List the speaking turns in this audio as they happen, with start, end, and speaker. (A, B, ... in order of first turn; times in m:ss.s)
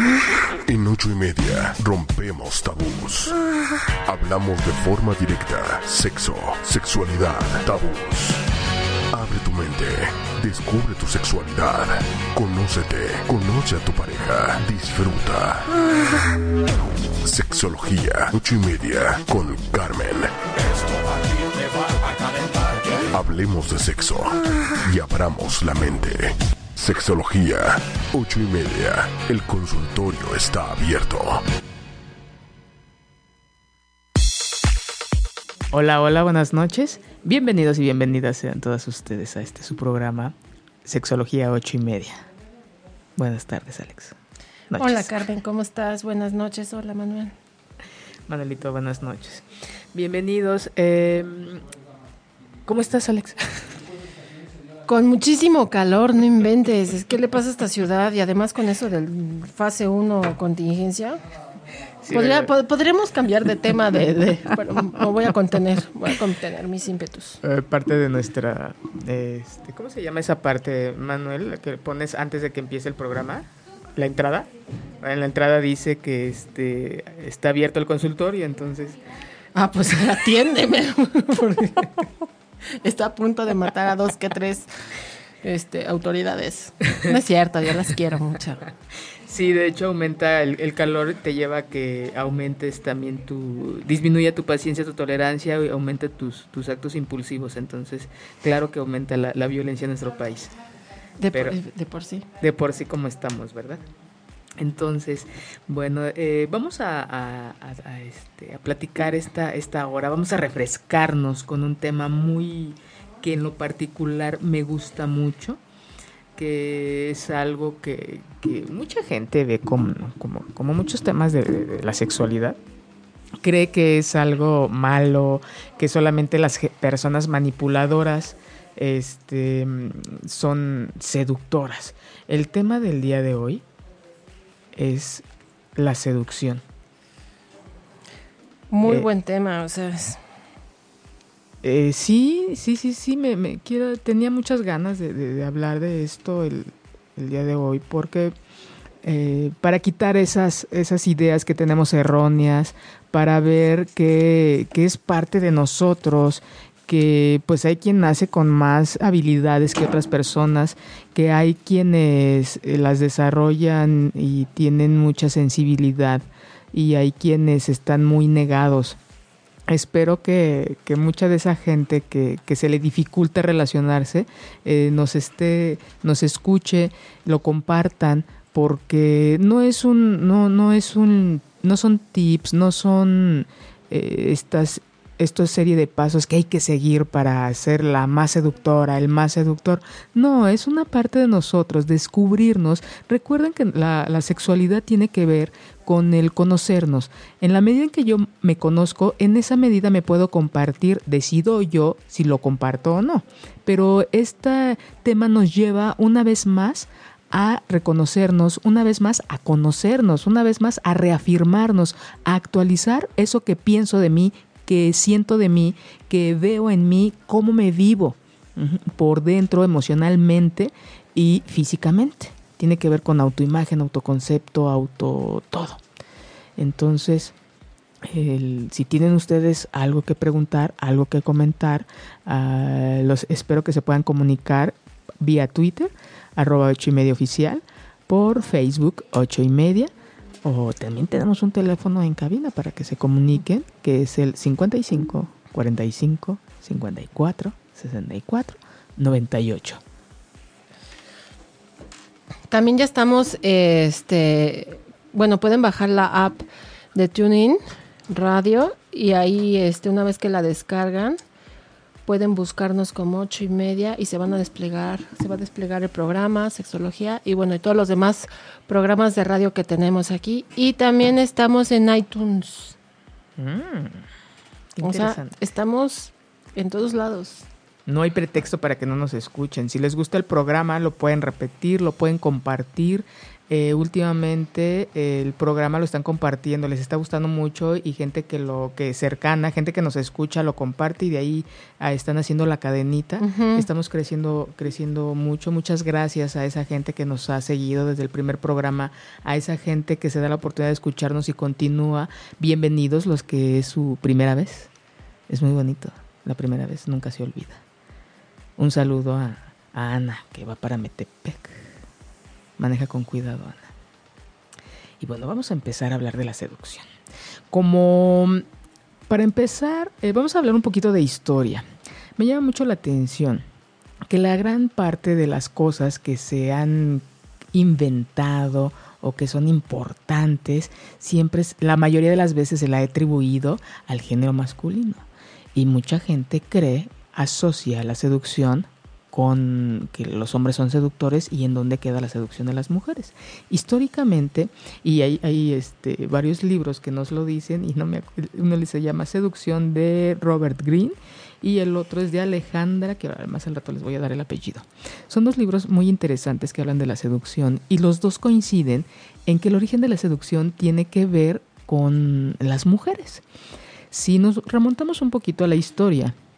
0:00.6-0:03.4 A
0:04.0-0:08.4 A
0:09.1-0:15.8 A
0:17.2-0:31.4 A
0:35.7-0:42.2 B
0:43.2-0:44.2 B
0:44.7-0:45.1 B
0:44.8-0:47.3 C
0:48.3-0:51.7 B
0:52.6-0:53.7 B
0:54.8-1:01.2 C
1:02.0-1:02.5 B
1:02.1-1:07.4 C
1:03.8-1:05.0 B
1:07.4-1:19.0 B
1:19.5-1:22.1 C
1:22.7-1:24.7 C
1:25.4-1:28.6 C
1:29.1-1:40.5 B
1:41.2-1:42.2 C
1:41.3-1:41.6 B
1:42.4-1:43.8 B
1:44.6-1:55.6 B
1:56.4-2:02.6 B
2:03.4-2:13.6 B
2:14.7-2:16.6 B
2:18.7-2:20.2 C
2:18.8-2:19.1 B
2:21.6-2:28.3 B
2:29.0-2:49.0 B
2:49.7-3:45.8 B
3:46.6-3:47.3 B
3:48.0-3:59.9 B
4:00.4-4:09.8 B
4:12.5-4:21.2 C
4:22.0-4:32.8 C
4:33.4-4:34.1 B
4:34.7-4:35.4 B
4:34.8-4:37.5 C
4:37.8-5:04.7 B
4:53.2-4:53.7 C
5:05.3-5:07.6 B
5:08.6-5:11.8 B
5:12.6-5:13.7 B
5:15.0-5:16.9 B
5:17.5-5:18.4 B
5:19.1-5:23.4 B
5:24.1-6:03.2 B
6:03.9-6:06.2 B